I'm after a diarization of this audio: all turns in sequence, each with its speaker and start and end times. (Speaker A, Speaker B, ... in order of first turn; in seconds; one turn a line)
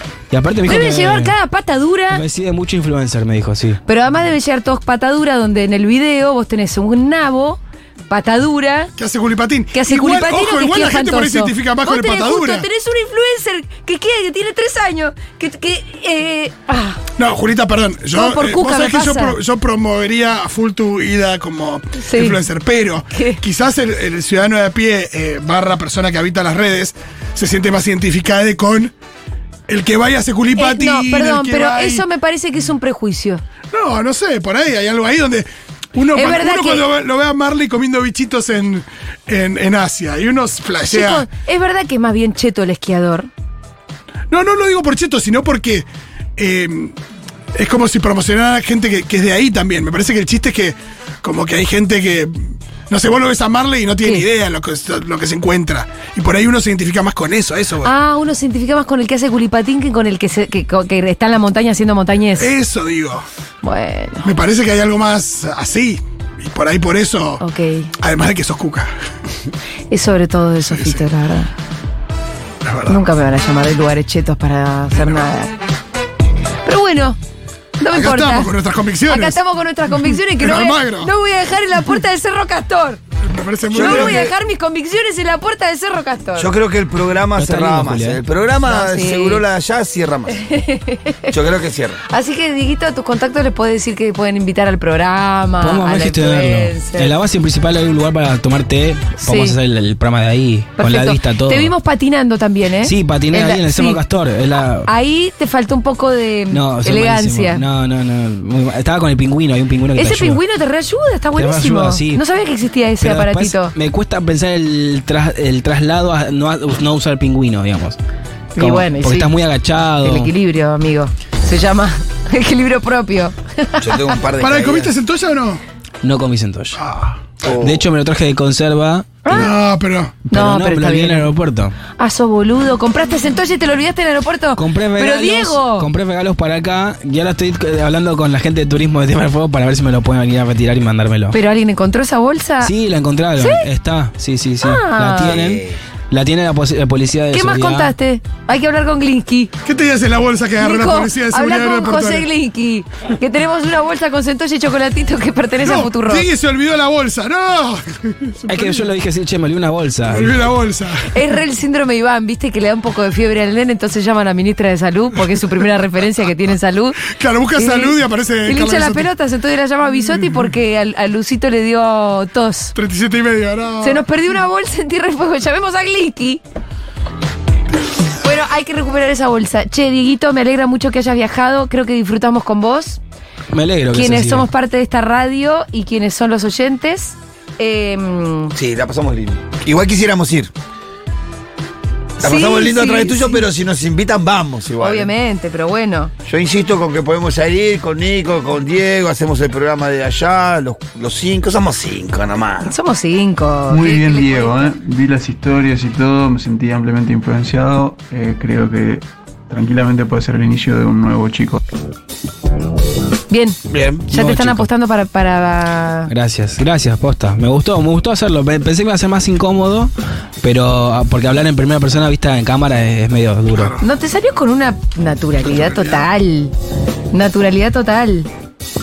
Speaker A: 0.3-1.3
Speaker B: 0.7-2.2
Speaker A: 2.1-3.8
Speaker B: 3.9-8.9
Speaker C: 9.0-12.7
Speaker B: 9.7-17.0
Speaker C: 17.2-28.9
Speaker B: 18.1-19.4
Speaker B: 22.0-22.4
Speaker B: 23.1-23.4
Speaker C: 29.7-32.0
Speaker B: 30.6-33.4
Speaker C: 33.7-41.3
Speaker B: 36.1-36.9
Speaker B: 40.9-43.3
Speaker C: 44.3-47.0
Speaker C: 47.5-57.9
Speaker B: 57.8-62.5
Speaker C: 62.4-63.2
Speaker B: 63.6-64.2
Speaker C: 64.2-67.4
Speaker B: 67.4-67.9
Speaker C: 67.9-68.9
Speaker B: 69.9-71.5
Speaker C: 70.7-71.1
Speaker C: 72.6-73.1
Speaker B: 72.9-75.5
Speaker C: 74.9-75.2
Speaker B: 76.6-77.2
Speaker B: 77.8-78.5
Speaker C: 77.9-79.4
Speaker B: 79.1-83.0
Speaker C: 79.9-81.1
Speaker C: 83.2-84.3
Speaker D: 83.7-84.3
Speaker B: 83.7-86.5
Speaker D: 86.4-90.4
Speaker A: 87.3-88.2
Speaker B: 88.6-89.4
Speaker B: 90.3-91.4
Speaker D: 91.3-92.0
Speaker B: 92.1-97.1
Speaker A: 95.6-101.7
Speaker B: 99.2-99.6
Speaker B: 100.8-104.0
Speaker A: 102.8-104.9
Speaker B: 104.9-107.6
Speaker A: 106.5-110.4
Speaker B: 110.0-113.7
Speaker A: 111.4-112.2
Speaker A: 113.0-118.0
Speaker B: 118.6-119.3
Speaker A: 118.6-120.3
Speaker B: 120.0-124.2
Speaker D: 123.8-124.9
Speaker C: 124.4-125.6
Speaker A: 126.0-126.8
Speaker C: 126.8-127.2
Speaker D: 127.4-127.8
Speaker A: 127.5-129.5
Speaker B: 129.2-129.5
Speaker C: 129.3-130.2
Speaker A: 130.3-131.8
Speaker B: 130.3-131.3
Speaker B: 132.0-135.9
Speaker A: 134.6-141.4
Speaker B: 141.3-142.7
Speaker A: 142.6-147.9
Speaker B: 143.4-143.7
Speaker B: 144.6-145.4
Speaker D: 145.3-145.8
Speaker B: 147.3-149.5
Speaker C: 149.6-152.3
Speaker B: 150.6-156.3
Speaker C: 155.6-158.9
Speaker A: 158.5-160.4
Speaker C: 160.1-161.1
Speaker B: 161.1-172.7
Speaker C: 167.0-169.1
Speaker C: 172.7-174.0
Speaker B: 173.8-176.4
Speaker B: 178.2-183.0
Speaker A: 183.5-184.4
Speaker B: 183.9-188.5
Speaker D: 188.5-190.5
Speaker D: 192.2-195.1
Speaker B: 192.2-193.4
Speaker B: 194.8-196.1
Speaker D: 196.2-202.7
Speaker B: 202.6-204.7
Speaker E: 203.7-211.6
Speaker B: 213.3-213.6
Speaker D: 213.7-214.1
Speaker A: 214.1-214.7
Speaker B: 214.1-216.1
Speaker A: 216.1-223.8
Speaker C: 223.5-223.8
Speaker B: 223.8-226.5
Speaker C: 225.4-226.1
Speaker B: 227.1-228.3